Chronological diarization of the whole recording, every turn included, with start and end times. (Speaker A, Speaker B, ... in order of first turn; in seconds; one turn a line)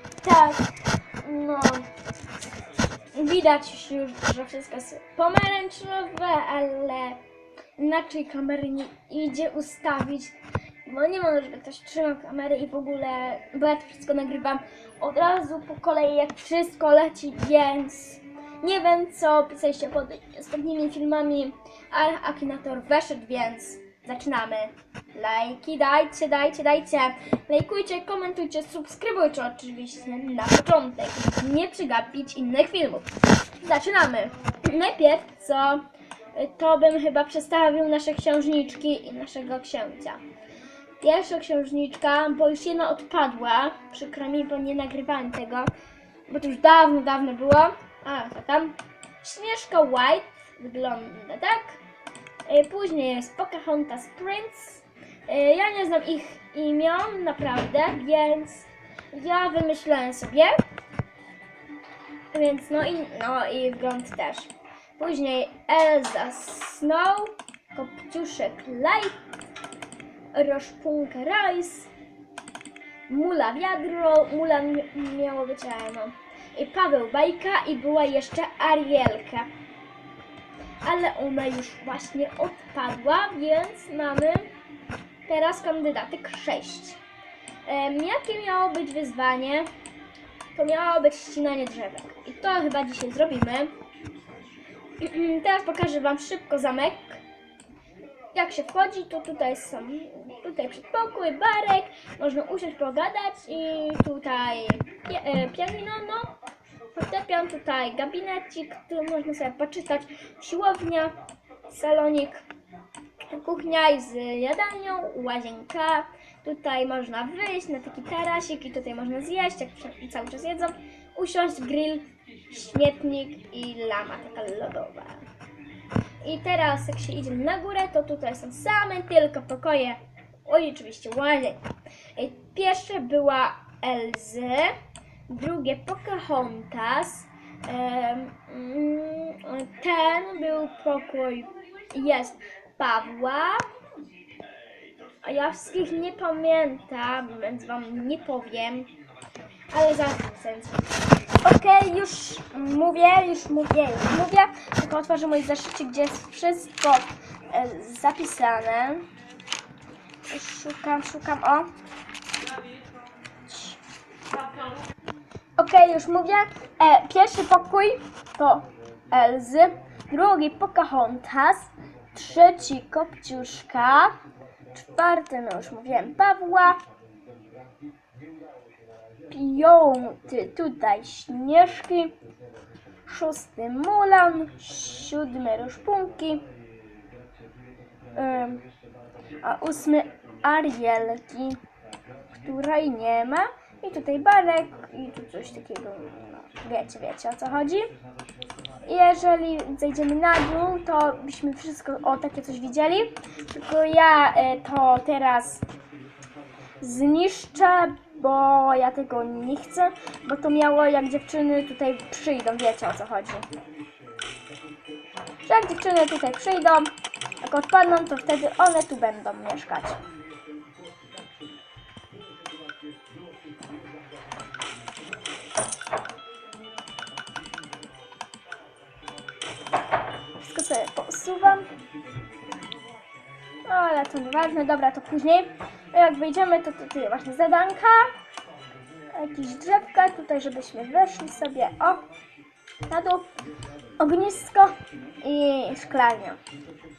Speaker A: 0.2-0.7
Speaker A: 1.2-1.9
Speaker A: 3.1-7.2
Speaker A: 7.8-40.2
Speaker A: 41.0-45.7
Speaker A: 46.3-51.8
Speaker A: 52.5-60.6
Speaker A: 62.3-69.2
Speaker A: 70.3-71.9
Speaker A: 73.1-79.5
Speaker A: 80.8-84.5
Speaker A: 85.2-87.0
Speaker A: 87.6-89.7
Speaker A: 90.5-93.7
Speaker A: 95.0-97.2
Speaker A: 98.3-106.3
Speaker A: 106.9-111.2
Speaker A: 111.7-112.4
Speaker A: 113.3-125.2
Speaker A: 126.2-131.6
Speaker A: 132.1-134.7
Speaker A: 135.3-143.6
Speaker A: 145.2-148.9
Speaker A: 149.7-150.9
Speaker A: 151.4-159.0
Speaker A: 160.2-161.7
Speaker A: 163.4-163.8
Speaker A: 165.6-174.2
Speaker A: 174.7-176.8
Speaker A: 179.3-182.2
Speaker A: 183.1-186.5
Speaker A: 188.1-188.6
Speaker A: 189.4-191.6
Speaker A: 192.3-197.9
Speaker A: 198.8-205.6
Speaker A: 206.8-213.5
Speaker A: 215.4-216.9
Speaker A: 217.4-220.0
Speaker A: 230.4-231.7
Speaker A: 233.7-238.1
Speaker A: 239.1-242.0
Speaker A: 242.9-243.3
Speaker A: 244.0-246.4